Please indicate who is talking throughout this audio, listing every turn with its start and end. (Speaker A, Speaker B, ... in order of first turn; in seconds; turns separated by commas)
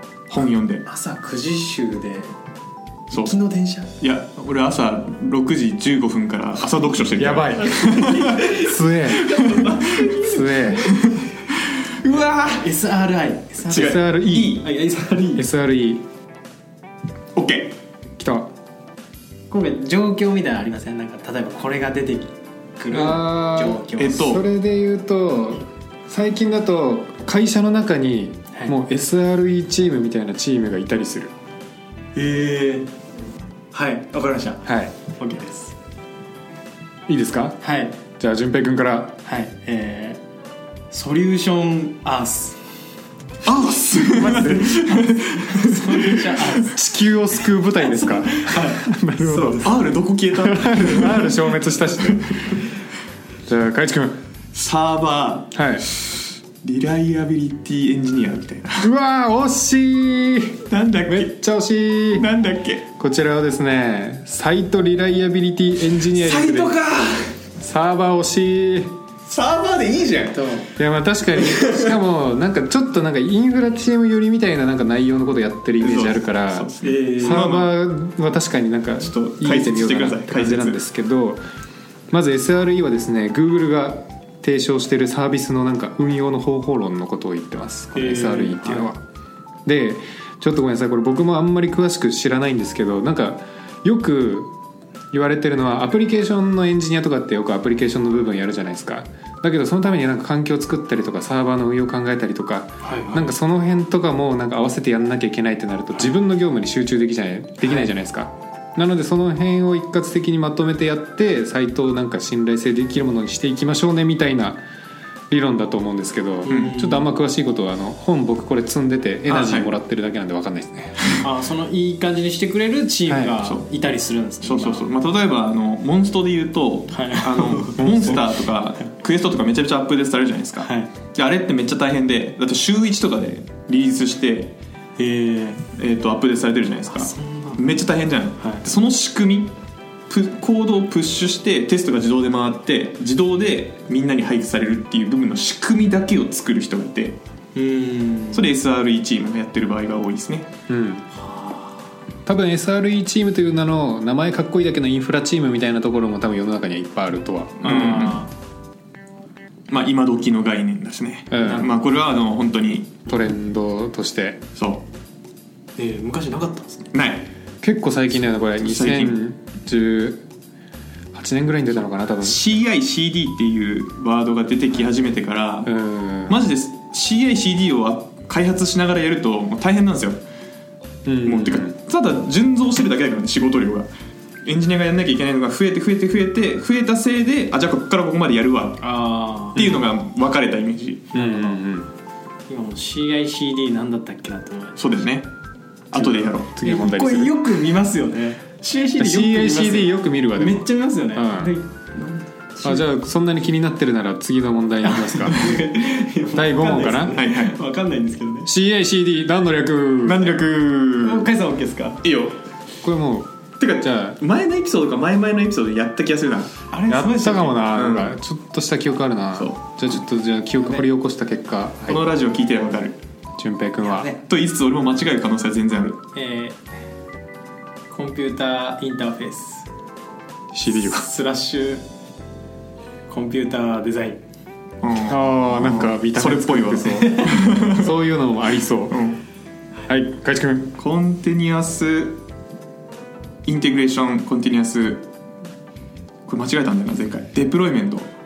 Speaker A: 0.3-0.8, Speaker B: 0.8-2.3, Speaker A: 3.1-3.4, Speaker B: 3.1-3.9, Speaker A: 4.0-8.4, Speaker C: 7.2-9.4, Speaker B: 7.9-10.7, Speaker A: 9.4-10.1, Speaker C: 10.1-10.9, Speaker A: 10.9-11.3, Speaker A: 12.0-12.7, Speaker B: 12.1-15.4, Speaker C: 13.7-14.6, Speaker A: 13.7-14.6, Speaker C: 15.3-16.1, Speaker A: 17.3-17.8, Speaker C: 18.2-18.5, Speaker B: 19.5-24.3, Speaker C: 22.9-31.3, Speaker A: 24.0-24.4, Speaker B: 32.1-32.9, Speaker B: 33.7-35.7, Speaker C: 34.6-34.9, Speaker C: 37.1-37.6, Speaker B: 37.6-38.0, Speaker C: 38.1-39.2, Speaker B: 39.2-40.2, Speaker B: 40.9-42.6, Speaker A: 43.4-46.4, Speaker C: 43.9-45.0, Speaker B: 45.3-46.8, Speaker C: 46.6-49.7, Speaker B: 47.7-49.8, Speaker A: 49.5-52.2, Speaker C: 50.4-52.6, Speaker C: 53.5-54.2, Speaker A: 54.5-55.5, Speaker C: 55.5-55.9, Speaker A: 56.6-58.9, Speaker C: 58.8-62.3, Speaker A: 60.7-61.3, Speaker A: 62.1-62.8, Speaker C: 63.0-66.8, Speaker A: 66.2-67.3, Speaker C: 67.6-69.0, Speaker A: 69.2-70.5, Speaker B: 70.3-70.7, Speaker C: 70.8-81.4, Speaker A: 71.5-71.9, Speaker A: 75.8-77.7, Speaker B: 76.8-77.5, Speaker A: 79.0-80.8, Speaker C: 82.1-89.0, Speaker B: 87.9-88.9, Speaker C: 89.7-94.5, Speaker C: 95.1-114.6, Speaker B: 102.8-103.3, Speaker C: 115.3-121.1, Speaker B: 116.5-117.1, Speaker A: 116.5-116.8, Speaker A: 119.3-119.7, Speaker B: 121.2-124.8, Speaker C: 123.1-123.3, Speaker A: 124.4-134.6, Speaker B: 126.9-128.8, Speaker B: 130.6-130.9, Speaker B: 135.0-135.7, Speaker A: 135.8-139.6, Speaker B: 136.9-137.7, Speaker B: 138.4-138.7, Speaker A: 140.1-147.2, Speaker B: 147.6-148.5, Speaker A: 148.3-150.5, Speaker C: 150.7-151.1, Speaker B: 151.2-151.8, Speaker C: 152.2-157.9, Speaker A: 157.6-158.3, Speaker B: 157.6-158.3, Speaker A: 159.7-162.9, Speaker C: 161.3-161.7, Speaker B: 161.4-161.7, Speaker C: 163.1-164.4, Speaker A: 164.6-164.8, Speaker B: 165.8-166.9, Speaker A: 166.9-167.3, Speaker C: 167.6-170.2, Speaker A: 168.6-169.2, Speaker C: 171.1-172.4, Speaker A: 172.2-175.7, Speaker C: 175.7-176.4, Speaker A: 176.3-180.2, Speaker C: 181.1-181.8, Speaker A: 181.2-183.9, Speaker A: 184.4-188.8, Speaker B: 188.8-189.7, Speaker A: 189.6-191.1, Speaker B: 191.1-191.6, Speaker C: 191.1-191.9, Speaker B: 192.5-194.9, Speaker A: 194.8-195.3, Speaker A: 195.9-196.5, Speaker C: 195.9-197.3, Speaker B: 196.6-202.8, Speaker C: 199.0-201.5, Speaker C: 202.6-205.6, Speaker B: 204.8-208.5, Speaker C: 206.3-207.2, Speaker A: 207.1-207.6, Speaker C: 208.4-210.4, Speaker A: 210.0-211.3, Speaker B: 211.0-212.0, Speaker A: 212.0-212.4, Speaker C: 212.8-214.2, Speaker A: 213.6-216.6, Speaker B: 216.7-217.7, Speaker C: 216.9-222.1, Speaker A: 217.7-218.2, Speaker A: 219.3-219.6, Speaker A: 221.9-223.0, Speaker C: 223.4-224.1, Speaker B: 223.8-224.2, Speaker A: 224.2-226.0, Speaker B: 226.1-226.6, Speaker B: 227.9-229.7, Speaker C: 230.5-231.1, Speaker B: 230.7-231.8, Speaker B: 233.1-234.2, Speaker A: 234.8-237.9, Speaker C: 235.1-239.0, Speaker B: 237.0-237.3, Speaker A: 238.9-239.2, Speaker C: 239.9-240.7, Speaker A: 240.8-242.2, Speaker A: 243.4-245.1, Speaker A: 246.2-248.1